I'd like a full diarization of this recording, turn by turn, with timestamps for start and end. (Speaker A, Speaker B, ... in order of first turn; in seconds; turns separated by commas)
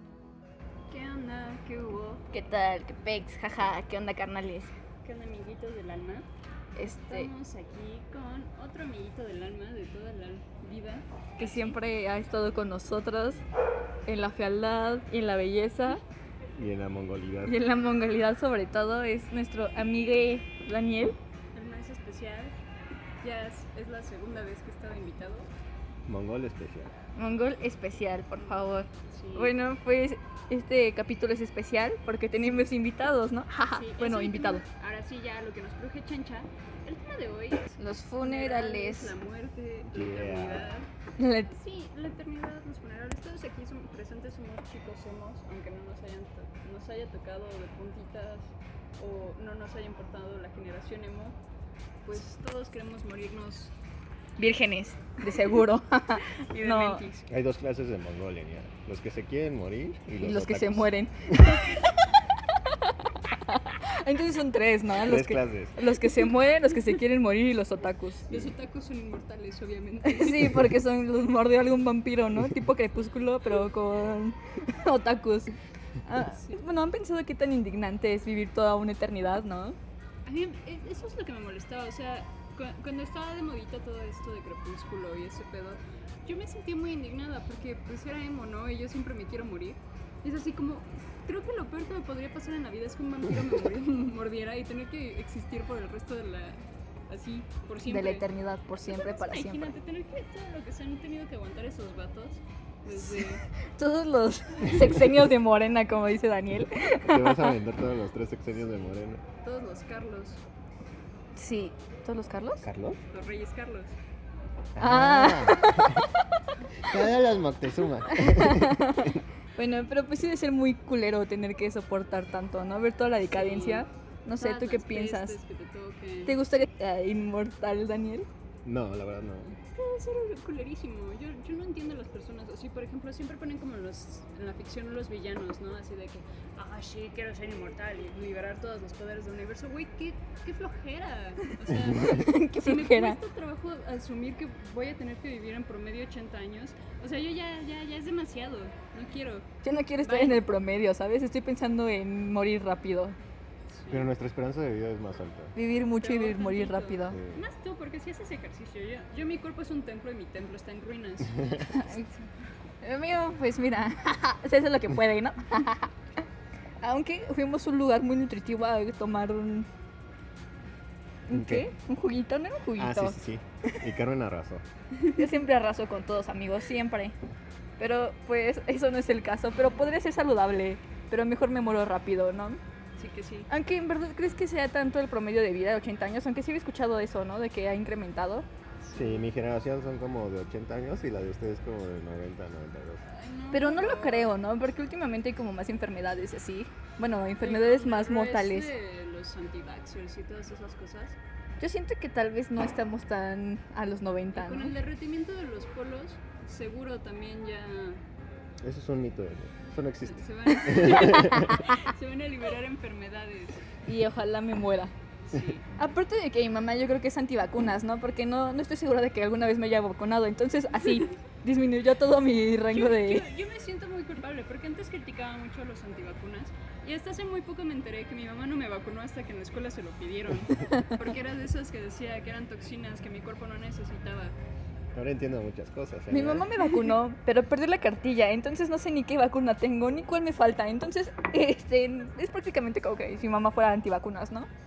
Speaker A: 0.9-2.2, Speaker B: 2.3-4.7, Speaker A: 5.0-6.3, Speaker B: 6.8-7.3, Speaker A: 7.1-11.8, Speaker B: 11.4-13.4, Speaker B: 14.1-16.0, Speaker C: 16.5-17.6, Speaker B: 17.4-21.2, Speaker A: 21.6-22.6, Speaker A: 23.2-25.5, Speaker C: 26.1-26.9, Speaker B: 27.2-34.6, Speaker A: 28.4-29.5, Speaker A: 33.7-40.9, Speaker B: 37.8-39.1, Speaker C: 39.8-40.7, Speaker B: 41.2-41.5, Speaker A: 41.5-51.4, Speaker A: 52.0-53.7, Speaker B: 54.4-57.0, Speaker A: 56.4-57.3, Speaker C: 57.3-61.6, Speaker B: 60.2-61.9, Speaker B: 62.7-68.3, Speaker C: 65.0-65.8, Speaker A: 68.3-70.7, Speaker B: 70.0-79.8, Speaker A: 76.4-76.6, Speaker A: 80.3-98.3, Speaker B: 97.9-99.8, Speaker A: 98.8-103.5, Speaker B: 102.9-107.6, Speaker C: 107.1-109.2, Speaker A: 108.6-110.4, Speaker B: 111.4-112.7, Speaker C: 112.6-113.0, Speaker A: 113.1-114.0, Speaker C: 114.8-116.1, Speaker B: 114.8-116.3, Speaker C: 116.8-119.2, Speaker B: 118.1-125.4, Speaker A: 123.4-126.4, Speaker B: 126.3-128.3, Speaker C: 128.7-129.6, Speaker A: 129.7-149.5, Speaker B: 142.0-143.2, Speaker B: 149.6-153.2, Speaker A: 150.0-150.4, Speaker A: 153.7-154.1, Speaker C: 153.9-155.5, Speaker B: 155.6-157.2, Speaker A: 156.0-161.8, Speaker C: 157.1-157.4, Speaker C: 161.4-161.7, Speaker B: 161.7-162.2, Speaker B: 162.8-165.9, Speaker B: 166.8-169.7, Speaker B: 171.3-173.2, Speaker C: 171.3-171.7, Speaker C: 172.8-174.6, Speaker B: 175.2-177.2, Speaker B: 177.8-182.6, Speaker A: 183.0-183.5, Speaker B: 183.5-188.5, Speaker A: 188.8-189.3, Speaker C: 188.9-193.0, Speaker A: 193.1-194.3, Speaker B: 193.5-198.7, Speaker A: 197.4-201.2, Speaker B: 201.6-204.8, Speaker A: 204.3-208.0, Speaker C: 208.6-211.8, Speaker A: 210.0-213.6, Speaker B: 210.7-211.7, Speaker B: 213.9-214.9, Speaker A: 215.2-215.7, Speaker B: 215.8-223.3, Speaker A: 222.7-234.4, Speaker C: 234.9-236.6, Speaker B: 236.1-244.5